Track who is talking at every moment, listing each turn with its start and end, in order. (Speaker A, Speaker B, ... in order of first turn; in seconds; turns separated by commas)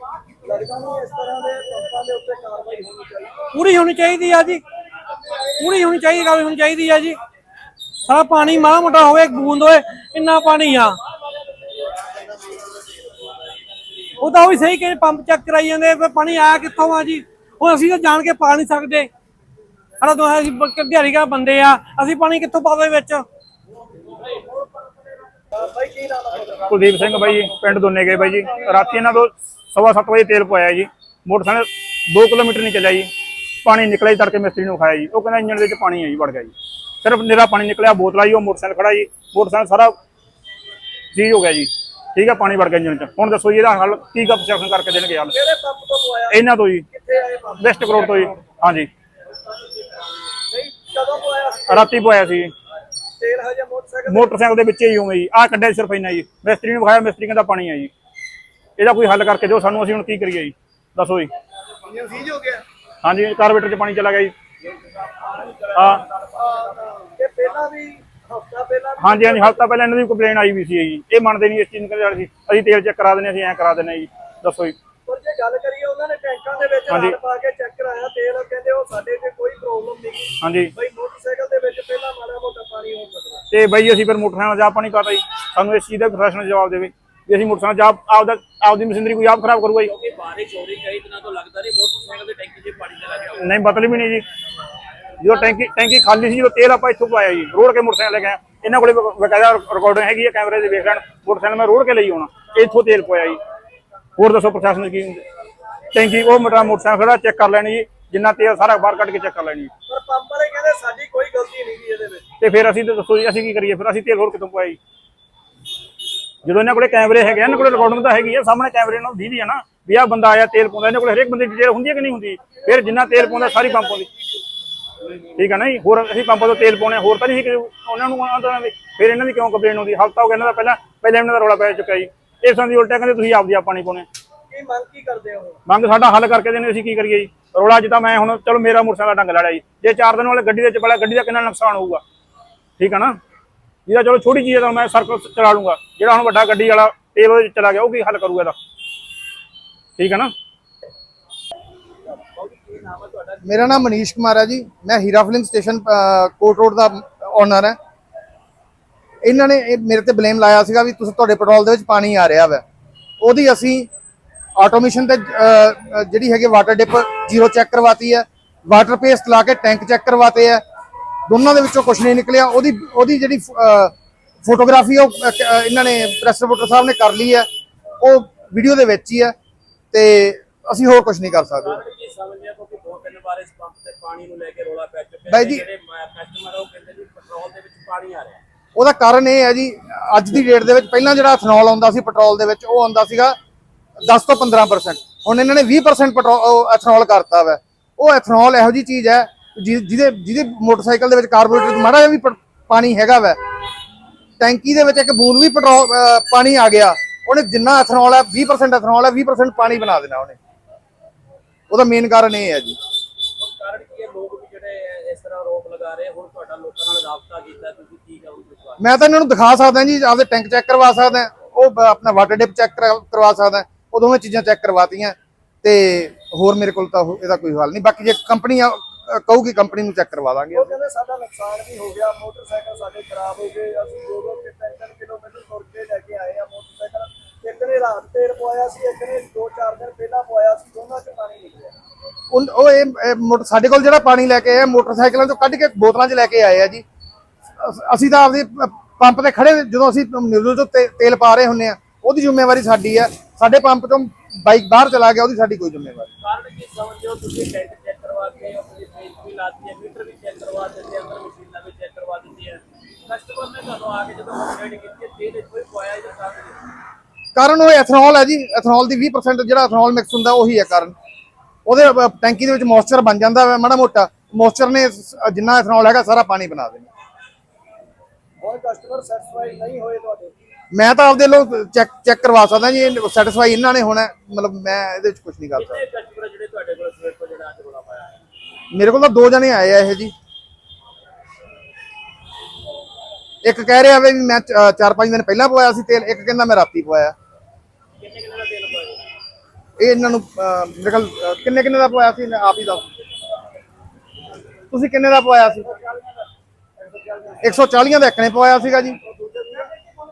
Speaker A: 0.4-3.4, Speaker B: 3.5-4.6, Speaker B: 5.5-7.2, Speaker B: 8.0-10.9, Speaker B: 14.2-19.1, Speaker B: 20.0-23.2, Speaker A: 25.5-27.6, Speaker C: 26.7-33.1, Speaker C: 33.6-40.0, Speaker C: 41.1-45.4, Speaker A: 45.3-48.3, Speaker C: 46.3-46.9, Speaker C: 47.6-48.9, Speaker A: 50.5-52.0, Speaker C: 51.7-52.5, Speaker A: 53.2-54.4, Speaker C: 54.1-57.9, Speaker C: 58.8-61.3, Speaker A: 61.9-62.6, Speaker C: 63.0-64.3, Speaker D: 64.7-66.7, Speaker C: 65.7-66.0, Speaker A: 66.4-69.6, Speaker C: 69.0-74.8, Speaker A: 75.0-83.4, Speaker C: 76.9-77.2, Speaker C: 80.4-80.7, Speaker C: 83.5-89.9, Speaker D: 89.8-93.5, Speaker C: 93.4-94.2, Speaker C: 95.2-103.4, Speaker C: 104.2-105.2, Speaker C: 105.9-109.7, Speaker A: 109.9-112.2, Speaker C: 112.4-114.8, Speaker C: 116.4-124.1, Speaker C: 125.3-134.1, Speaker A: 134.5-135.6, Speaker C: 135.7-142.0, Speaker C: 142.8-143.2, Speaker C: 143.9-148.6, Speaker C: 150.0-150.3, Speaker D: 152.1-153.8, Speaker E: 153.4-157.8, Speaker E: 159.2-162.6, Speaker E: 163.2-163.9, Speaker E: 164.6-170.6, Speaker E: 171.3-173.9, Speaker E: 174.4-177.4, Speaker E: 178.0-179.3, Speaker E: 179.9-181.8, Speaker D: 181.6-188.4, Speaker E: 185.3-185.7, Speaker E: 188.8-193.3, Speaker E: 194.0-203.4, Speaker E: 204.4-210.3, Speaker E: 211.7-212.8, Speaker D: 213.4-218.8, Speaker E: 218.8-230.7, Speaker A: 230.5-241.7, Speaker E: 242.3-246.8, Speaker E: 247.6-256.1, Speaker D: 256.2-266.6, Speaker E: 267.3-270.9, Speaker E: 271.6-276.9, Speaker A: 278.4-280.3, Speaker E: 280.7-285.8, Speaker D: 285.6-288.1, Speaker E: 288.7-290.1, Speaker E: 293.4-297.1, Speaker D: 298.0-299.0, Speaker E: 299.8-302.8, Speaker E: 304.7-305.7, Speaker A: 305.7-306.1, Speaker A: 306.8-307.7, Speaker E: 307.4-309.0, Speaker A: 308.9-309.7